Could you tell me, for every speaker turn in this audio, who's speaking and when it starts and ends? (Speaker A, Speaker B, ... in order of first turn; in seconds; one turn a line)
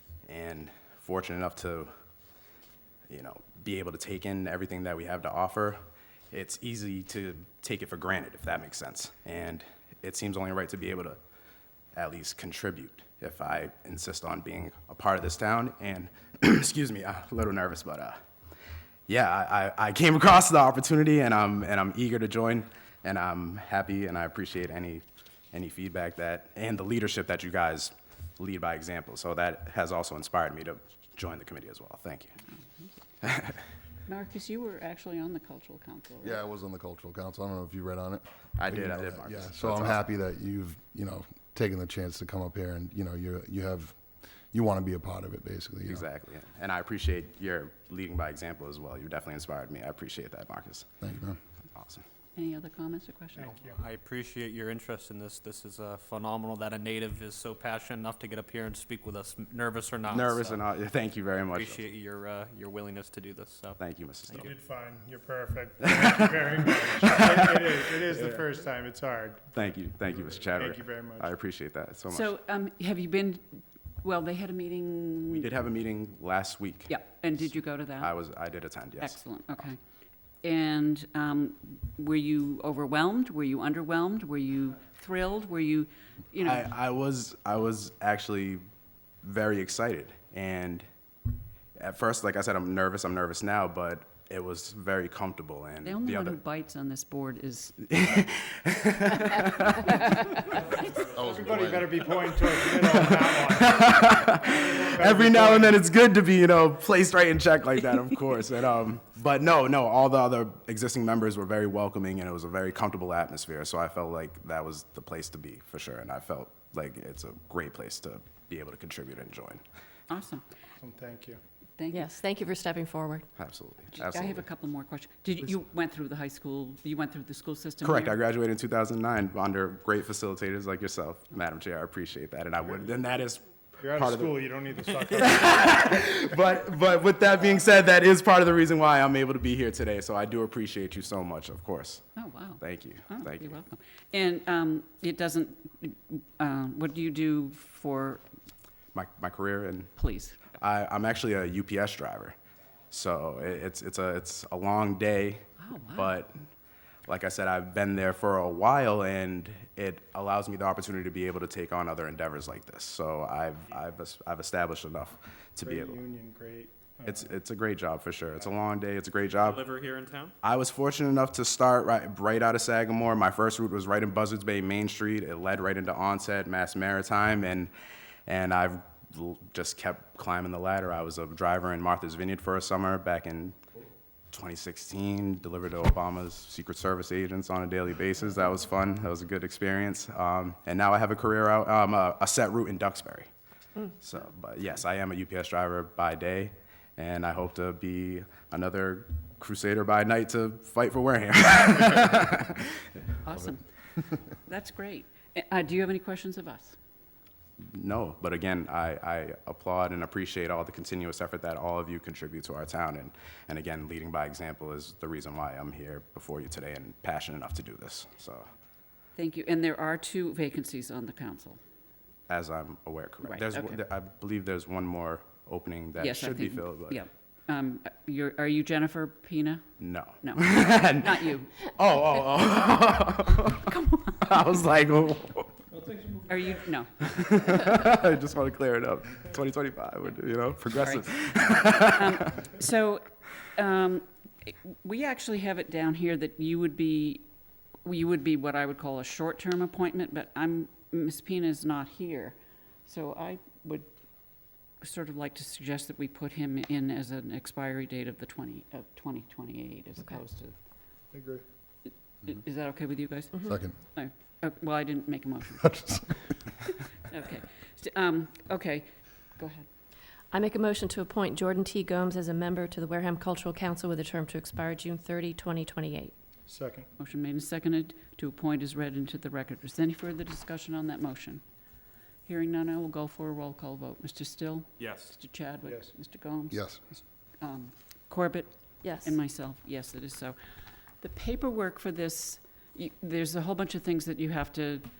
Speaker A: 0.2-1.9
Speaker A: 3.1-5.8
Speaker A: 6.3-11.2
Speaker A: 11.9-18.2
Speaker A: 19.1-32.4
Speaker A: 33.2-33.6
Speaker B: 34.1-36.4
Speaker C: 36.2-44.0
Speaker A: 38.5-40.0
Speaker C: 44.5-46.1
Speaker A: 45.9-50.9
Speaker C: 51.0-51.4
Speaker A: 51.8-52.0
Speaker B: 52.4-53.5
Speaker D: 53.5-60.6
Speaker A: 60.1-61.8
Speaker D: 61.5-64.5
Speaker A: 63.8-64.5
Speaker E: 64.4-69.5
Speaker A: 65.8-67.5
Speaker A: 69.5-72.3
Speaker E: 70.1-71.3
Speaker B: 72.1-75.5
Speaker A: 75.3-79.2
Speaker B: 76.9-78.2
Speaker B: 79.0-79.8
Speaker B: 80.4-86.6
Speaker A: 86.4-88.6
Speaker A: 89.2-90.8
Speaker A: 91.8-96.4
Speaker B: 95.8-97.8
Speaker A: 97.8-100.6
Speaker B: 99.8-100.7
Speaker C: 101.1-101.9
Speaker E: 101.4-103.7
Speaker A: 102.7-119.6
Speaker E: 104.6-105.7
Speaker B: 120.1-120.4
Speaker E: 120.8-121.3
Speaker B: 121.8-122.0
Speaker F: 121.9-123.3
Speaker A: 123.4-124.5
Speaker B: 123.9-128.2
Speaker A: 127.8-133.4
Speaker E: 133.8-135.3
Speaker A: 133.9-134.4
Speaker A: 135.1-142.0
Speaker B: 142.2-148.2
Speaker A: 142.6-143.5
Speaker A: 148.9-149.9
Speaker B: 150.0-150.4
Speaker A: 150.5-152.3
Speaker A: 152.9-156.3
Speaker B: 155.6-156.1
Speaker A: 157.1-166.0
Speaker E: 165.6-167.1
Speaker A: 167.1-169.7
Speaker D: 169.4-170.3
Speaker A: 170.4-177.7
Speaker A: 178.3-183.6
Speaker A: 184.3-193.3
Speaker A: 194.0-202.9
Speaker B: 203.2-203.6
Speaker B: 204.4-206.8
Speaker A: 207.7-218.4
Speaker B: 219.2-221.6
Speaker A: 222.3-227.0
Speaker B: 223.2-223.8
Speaker B: 226.0-229.6
Speaker A: 229.8-235.6
Speaker B: 230.2-231.5
Speaker B: 233.7-234.2
Speaker B: 236.3-237.5
Speaker A: 237.0-242.5
Speaker B: 240.8-247.2
Speaker B: 247.8-253.9
Speaker B: 254.8-260.5
Speaker E: 261.1-261.4
Speaker B: 262.2-269.7
Speaker C: 263.4-263.8
Speaker F: 270.3-276.1
Speaker E: 276.5-276.8
Speaker B: 277.0-281.4
Speaker B: 282.2-290.4
Speaker C: 286.5-286.8
Speaker F: 288.8-289.1
Speaker B: 291.0-294.9